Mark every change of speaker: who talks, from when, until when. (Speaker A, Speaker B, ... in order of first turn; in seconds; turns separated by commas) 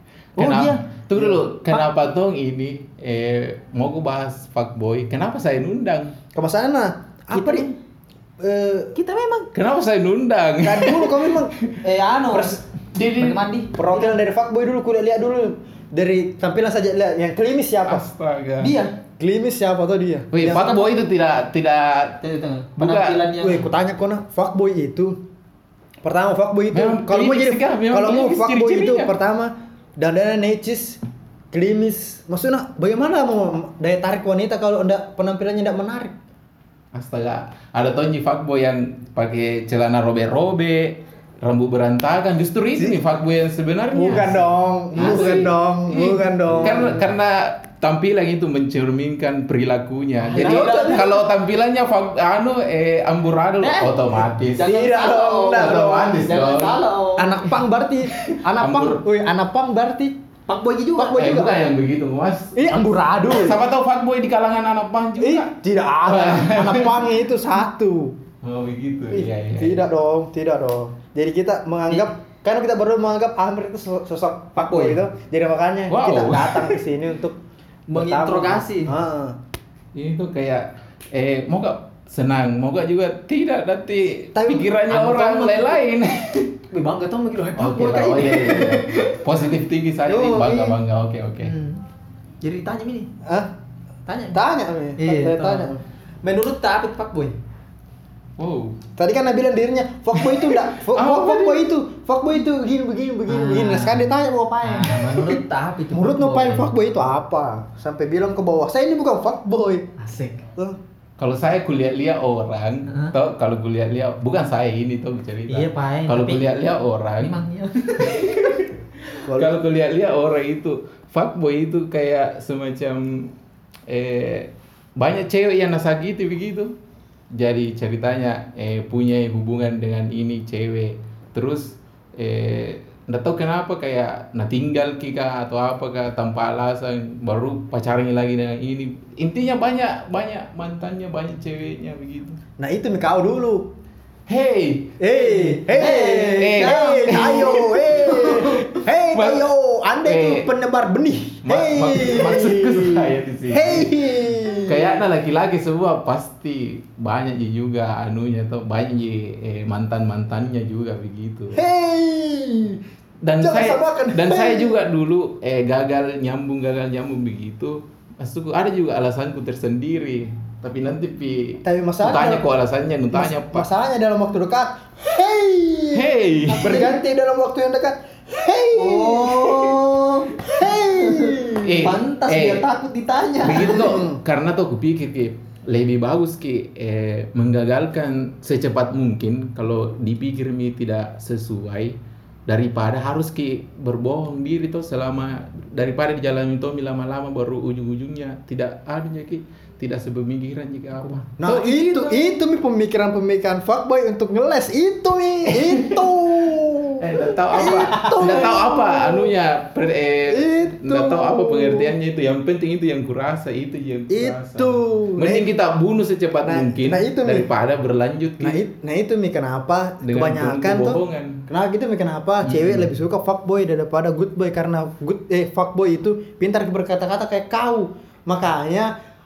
Speaker A: 0.4-0.9, Speaker B: 0.4-6.2, Speaker C: 1.2-1.4, Speaker C: 6.3-7.7, Speaker A: 7.3-7.8, Speaker C: 8.4-8.9, Speaker A: 8.9-9.5, Speaker B: 9.5-11.7, Speaker C: 10.6-11.6, Speaker A: 11.8-12.6, Speaker B: 12.9-13.4, Speaker A: 13.2-14.2, Speaker C: 13.8-18.1, Speaker B: 17.9-18.8, Speaker A: 18.6-19.0, Speaker C: 19.2-20.8, Speaker B: 20.3-22.2, Speaker A: 22.2-23.7, Speaker B: 22.8-23.3, Speaker C: 23.4-25.2, Speaker C: 26.0-31.0, Speaker B: 26.7-29.1, Speaker C: 31.5-36.2, Speaker B: 36.9-56.8, Speaker C: 43.9-47.1, Speaker A: 45.0-45.5, Speaker A: 50.2-51.3, Speaker C: 50.4-51.0, Speaker A: 53.6-57.5, Speaker C: 54.6-56.3, Speaker C: 57.2-60.2, Speaker B: 58.2-59.0, Speaker A: 60.5-61.2, Speaker C: 61.0-61.6, Speaker B: 61.1-65.5, Speaker C: 62.5-63.6, Speaker C: 65.2-68.2, Speaker B: 66.0-67.0, Speaker B: 68.4-69.8, Speaker C: 69.1-77.4, Speaker A: 74.6-75.0, Speaker B: 75.9-76.8, Speaker A: 77.9-78.9, Speaker C: 77.9-79.4, Speaker B: 79.9-86.5, Speaker C: 84.3-84.7, Speaker A: 84.9-85.8, Speaker A: 86.7-89.2, Speaker B: 87.6-91.5, Speaker A: 90.1-90.8, Speaker A: 91.4-91.8, Speaker A: 92.4-93.1, Speaker C: 93.2-93.5, Speaker A: 94.1-94.4, Speaker C: 94.3-95.8, Speaker A: 95.0-95.7, Speaker A: 96.2-97.4, Speaker B: 98.4-98.8, Speaker C: 99.0-105.4, Speaker B: 100.9-101.7, Speaker A: 103.3-104.1, Speaker A: 104.6-106.7, Speaker C: 105.9-109.9, Speaker A: 110.0-110.4, Speaker B: 111.2-117.3, Speaker A: 112.9-113.1, Speaker A: 115.5-116.5, Speaker A: 117.2-118.6, Speaker B: 118.0-118.7, Speaker C: 119.2-119.6, Speaker B: 119.3-123.3, Speaker B: 123.9-126.7, Speaker B: 127.3-142.4, Speaker C: 142.6-143.7, Speaker B: 144.3-145.0, Speaker C: 145.0-155.0, Speaker A: 145.1-147.4, Speaker B: 146.3-148.4, Speaker A: 148.1-148.7, Speaker B: 149.1-149.5, Speaker B: 150.0-150.5, Speaker B: 151.4-161.6, Speaker C: 161.5-162.8, Speaker B: 163.2-173.7, Speaker C: 163.4-164.8, Speaker C: 171.6-172.5, Speaker C: 173.1-179.8, Speaker B: 175.9-177.0, Speaker A: 178.8-183.8, Speaker C: 180.4-181.9, Speaker B: 181.6-182.7, Speaker B: 183.4-192.0, Speaker C: 183.6-184.2, Speaker B: 192.5-202.4, Speaker C: 201.4-209.3, Speaker B: 207.0-218.6, Speaker A: 207.6-208.5, Speaker C: 210.3-211.9, Speaker C: 214.1-215.5, Speaker C: 216.4-217.5, Speaker C: 218.4-228.9, Speaker B: 220.0-221.4, Speaker B: 222.4-222.9